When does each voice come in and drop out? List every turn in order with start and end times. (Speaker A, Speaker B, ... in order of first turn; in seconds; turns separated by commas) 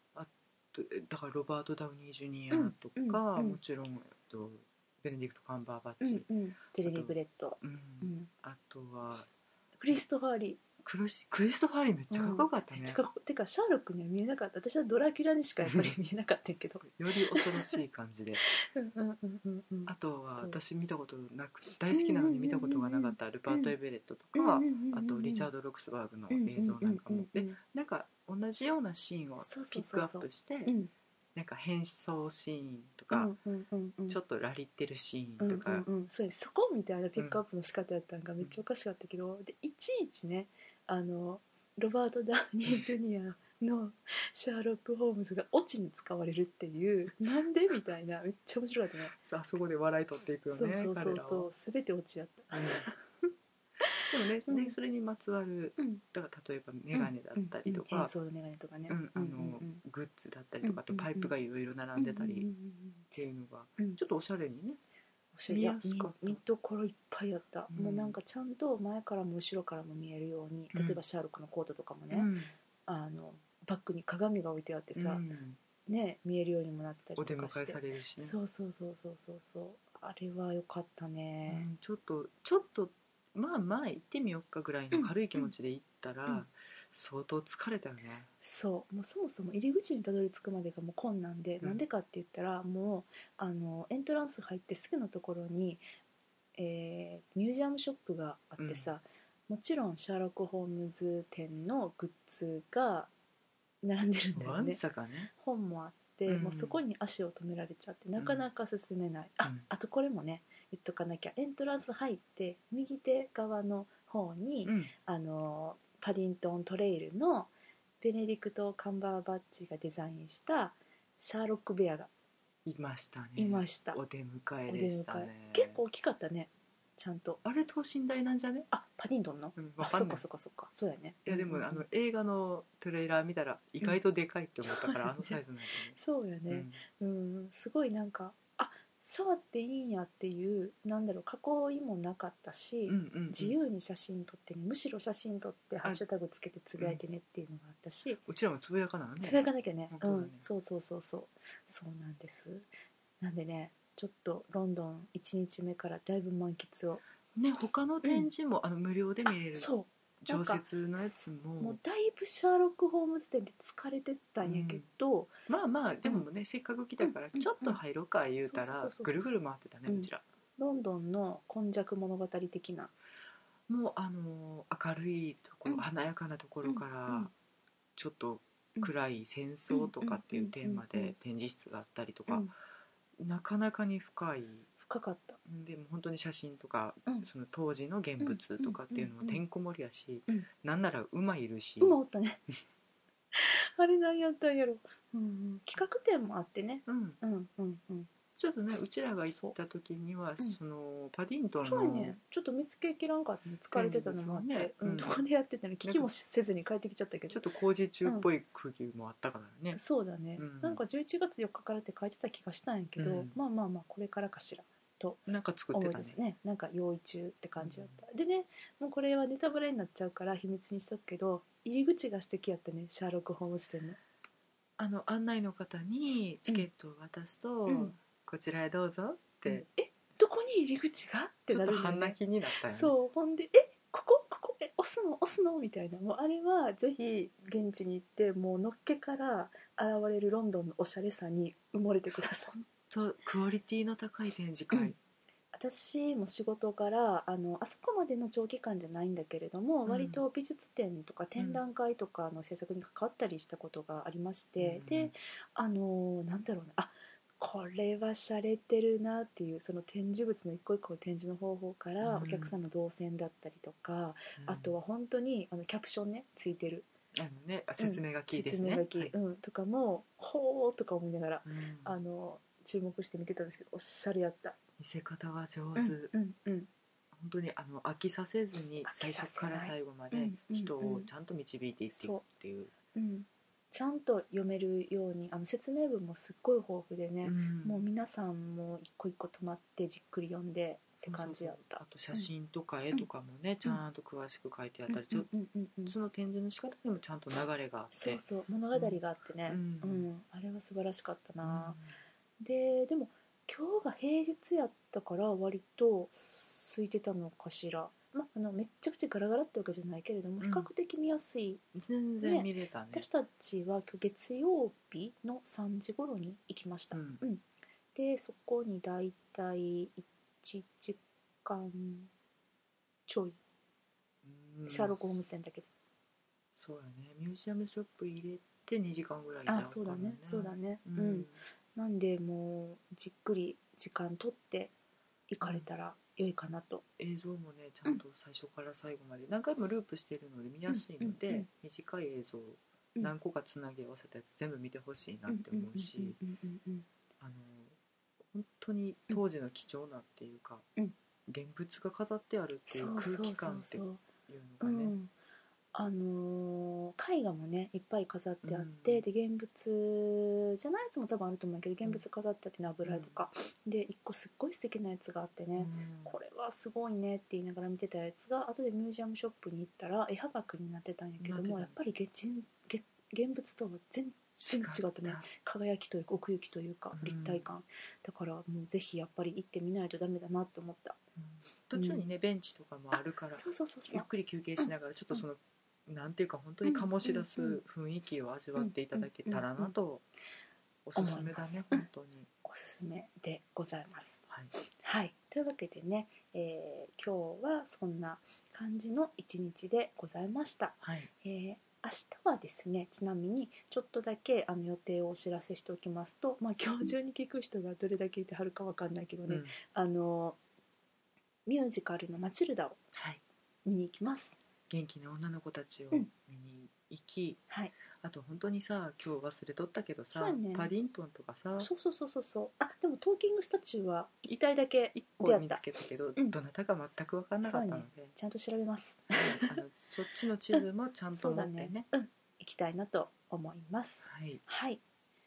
Speaker A: 0.1-6.3, Speaker B: 2.5-3.6, Speaker B: 6.0-8.3, Speaker A: 6.8-9.3, Speaker B: 9.8-10.6, Speaker A: 10.8-13.0, Speaker B: 12.1-17.8, Speaker A: 15.6-15.9, Speaker A: 16.8-18.4, Speaker B: 18.4-20.6, Speaker A: 19.9-30.7, Speaker B: 21.9-23.7, Speaker B: 24.3-25.5, Speaker B: 26.3-27.6, Speaker B: 29.4-30.9, Speaker A: 31.4-33.3, Speaker B: 33.1-34.2, Speaker A: 34.1-35.9, Speaker B: 35.4-49.1, Speaker A: 49.2-51.5, Speaker B: 50.5-52.9, Speaker A: 52.5-53.3, Speaker A: 54.1-58.1, Speaker B: 54.5-54.8, Speaker B: 55.8-56.0, Speaker B: 56.9-59.8, Speaker A: 58.9-62.5, Speaker B: 60.6-61.3, Speaker B: 62.0-63.1, Speaker A: 63.1-64.8, Speaker B: 65.3-72.3, Speaker A: 65.5-66.4, Speaker A: 67.7-68.2, Speaker A: 70.7-71.0, Speaker A: 72.1-72.5, Speaker B: 72.8-75.2, Speaker A: 74.9-75.6, Speaker B: 75.9-81.7, Speaker A: 77.2-78.4, Speaker A: 81.5-88.3, Speaker B: 84.9-85.5, Speaker B: 88.4-95.8, Speaker B: 96.5-103.1, Speaker A: 98.6-98.9, Speaker B: 103.8-104.8, Speaker A: 104.3-105.3, Speaker B: 105.3-122.1, Speaker A: 106.3-106.8, Speaker A: 108.2-108.5, Speaker A: 114.6-114.9, Speaker A: 122.7-125.8, Speaker B: 123.3-124.0, Speaker B: 124.7-127.4, Speaker A: 127.4-128.7, Speaker B: 128.7-131.8, Speaker A: 129.6-130.2, Speaker A: 131.2-136.0, Speaker B: 134.6-135.4, Speaker B: 135.9-148.2, Speaker A: 136.5-136.8, Speaker A: 142.9-143.6, Speaker A: 148.2-150.4, Speaker B: 149.2-152.7, Speaker B: 153.2-157.0, Speaker A: 157.3-161.8, Speaker B: 159.5-165.3, Speaker A: 164.4-164.8, Speaker A: 165.5-170.2, Speaker B: 167.0-167.8, Speaker B: 168.4-169.3, Speaker B: 169.9-172.9, Speaker A: 173.7-177.3, Speaker B: 176.6-177.3, Speaker A: 178.0-182.5, Speaker B: 179.7-181.2, Speaker A: 183.2-184.7, Speaker B: 184.8-185.4, Speaker A: 185.4-192.0, Speaker B: 188.2-189.4, Speaker B: 191.8-192.4, Speaker B: 193.3-198.1, Speaker A: 196.9-197.2, Speaker A: 198.3-202.2, Speaker B: 199.3-199.6, Speaker B: 201.6-207.4, Speaker A: 203.7-205.2, Speaker A: 205.8-206.1, Speaker A: 207.3-209.8, Speaker B: 209.7-224.0, Speaker A: 210.4-210.8, Speaker A: 213.0-213.3, Speaker A: 215.3-216.2, Speaker A: 217.6-218.0, Speaker A: 224.8-229.6, Speaker B: 227.7-227.9, Speaker B: 229.4-242.6, Speaker A: 231.5-232.9, Speaker A: 242.5-244.9, Speaker B: 245.5-266.9, Speaker A: 249.8-250.2, Speaker A: 251.4-251.6, Speaker A: 254.6-255.1, Speaker A: 262.0-262.5, Speaker A: 264.4-264.7, Speaker A: 267.1-269.1, Speaker B: 267.8-274.6, Speaker A: 271.4-272.0, Speaker A: 274.8-276.1, Speaker B: 275.7-276.7, Speaker A: 277.1-282.7, Speaker B: 278.8-281.1, Speaker B: 281.9-282.2, Speaker B: 282.9-292.3, Speaker A: 287.2-287.8, Speaker A: 291.0-295.3, Speaker B: 294.9-295.9, Speaker A: 295.9-298.2, Speaker B: 297.9-301.8, Speaker A: 298.7-300.1, Speaker A: 301.4-302.0, Speaker B: 302.4-311.6, Speaker A: 310.4-310.7, Speaker A: 311.7-313.1, Speaker B: 312.2-322.1, Speaker A: 316.9-317.2, Speaker B: 323.1-323.4, Speaker A: 324.2-325.1, Speaker B: 324.6-325.7, Speaker A: 326.6-331.4, Speaker B: 329.4-334.7, Speaker B: 335.3-336.8, Speaker A: 335.4-335.7, Speaker A: 337.0-346.2, Speaker B: 340.7-341.5, Speaker B: 345.3-346.9, Speaker A: 347.2-347.7, Speaker A: 348.2-350.6, Speaker A: 351.3-354.9, Speaker B: 352.7-354.0, Speaker B: 354.6-355.1, Speaker B: 355.7-381.0, Speaker A: 358.4-359.0, Speaker A: 362.8-363.2, Speaker A: 365.6-366.1, Speaker A: 371.2-371.7, Speaker A: 374.4-375.3, Speaker A: 376.9-377.5, Speaker A: 381.1-390.0, Speaker B: 381.7-382.0, Speaker B: 383.3-384.1, Speaker B: 384.6-385.2, Speaker B: 386.6-387.6, Speaker B: 388.6-389.7, Speaker A: 390.9-392.3, Speaker B: 390.9-391.9, Speaker B: 392.4-410.4, Speaker A: 400.8-401.1, Speaker A: 409.3-409.5, Speaker B: 411.4-412.8, Speaker A: 412.9-413.2, Speaker B: 413.6-414.4, Speaker A: 414.7-417.4, Speaker A: 418.0-421.7, Speaker B: 420.1-420.7, Speaker B: 421.6-425.6, Speaker A: 424.9-428.1, Speaker B: 427.4-429.6, Speaker A: 429.1-431.9, Speaker B: 431.1-434.8, Speaker A: 434.1-434.4